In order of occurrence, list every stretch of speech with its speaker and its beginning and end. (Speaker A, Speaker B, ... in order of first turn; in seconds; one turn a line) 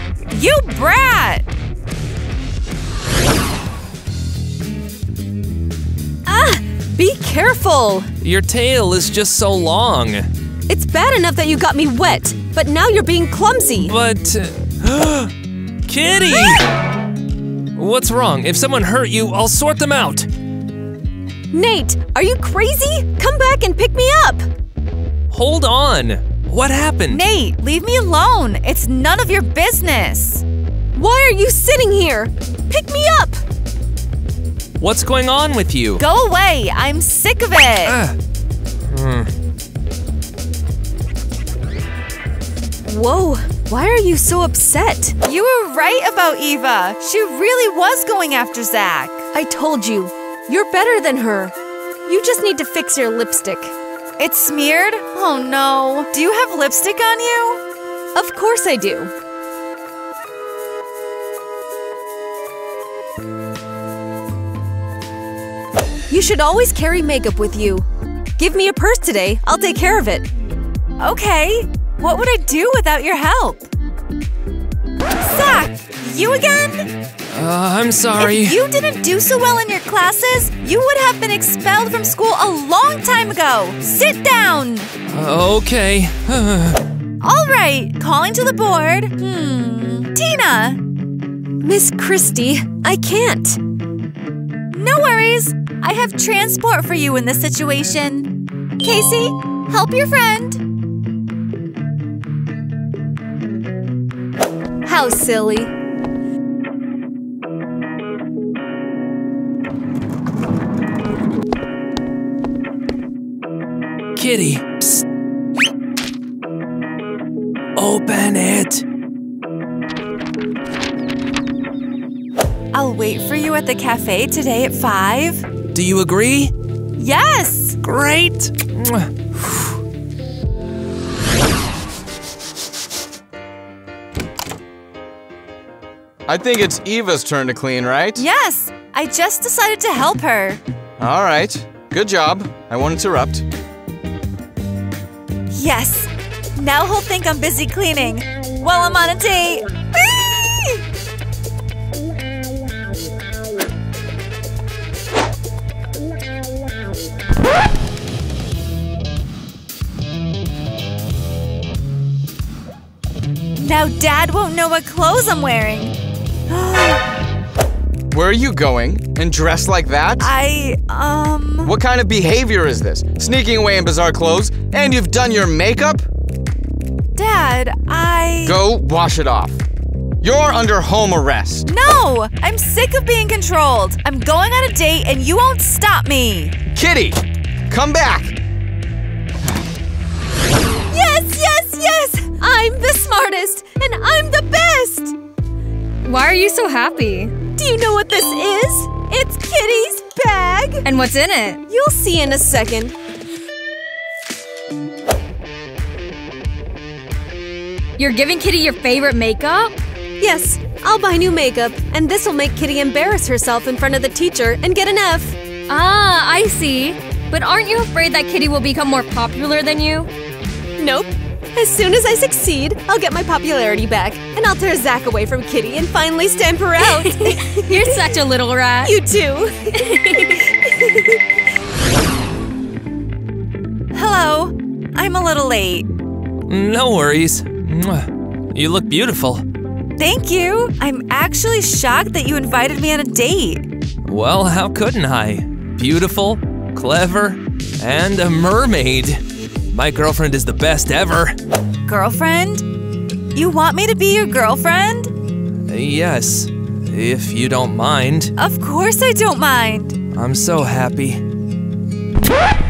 Speaker A: 0.3-1.5
Speaker B: 6.2-8.1
Speaker C: 8.2-10.3
Speaker B: 10.7-13.9
Speaker C: 13.9-15.3
Speaker C: 15.8-16.6
Speaker C: 17.8-20.3
Speaker B: 21.5-24.5
Speaker C: 25.3-27.2
Speaker A: 27.1-30.4
Speaker B: 30.9-33.4
Speaker C: 34.8-36.0
Speaker A: 36.0-38.0
Speaker C: 37.8-38.1
Speaker C: 38.9-39.3
Speaker B: 42.8-45.1
Speaker A: 45.2-49.2
Speaker B: 49.3-51.5
Speaker B: 52.0-53.7
Speaker A: 54.2-57.6
Speaker B: 58.1-59.1
Speaker B: 66.1-67.8
Speaker B: 68.4-70.3
Speaker A: 71.0-73.7
Speaker A: 75.2-76.9
Speaker C: 77.3-78.6
Speaker A: 78.2-84.9
Speaker C: 85.1-86.8
Speaker A: 87.2-90.8
Speaker B: 91.6-93.6
Speaker A: 94.7-100.6
Speaker B: 104.8-105.7
Speaker C: 114.2-115.0
Speaker C: 117.8-118.8
Speaker A: 122.7-125.4
Speaker C: 125.7-126.5
Speaker A: 127.0-127.8
Speaker C: 127.8-129.6
Speaker D: 136.3-138.2
Speaker A: 138.2-140.6
Speaker D: 141.0-143.4
Speaker A: 145.5-149.7
Speaker A: 163.5-165.9
Speaker A: 166.5-167.0
Speaker D: 168.1-170.3
Speaker A: 170.2-171.7
Speaker D: 171.6-176.1
Speaker A: 177.1-178.6
Speaker D: 178.4-179.6
Speaker D: 180.2-181.7
Speaker A: 181.7-186.5
Speaker D: 186.7-188.3
Speaker B: 190.9-195.1
Speaker E: 196.0-197.5
Speaker B: 197.4-200.8
Speaker E: 200.8-201.6
Speaker B: 201.7-202.9
Speaker E: 208.0-209.8
Speaker B: 210.2-215.4
Speaker E: 215.7-220.1
Speaker B: 220.8-228.2
Speaker E: 226.8-229.0
Speaker B: 228.8-231.2
Speaker A: 233.9-235.9
Speaker C: 236.5-239.4
Speaker A: 240.0-243.6
Speaker C: 244.0-249.2
Speaker C: 249.7-251.3
Speaker A: 251.9-252.7
Speaker A: 253.3-255.1
Speaker C: 255.7-258.3
Speaker A: 258.4-260.0
Speaker C: 260.1-261.2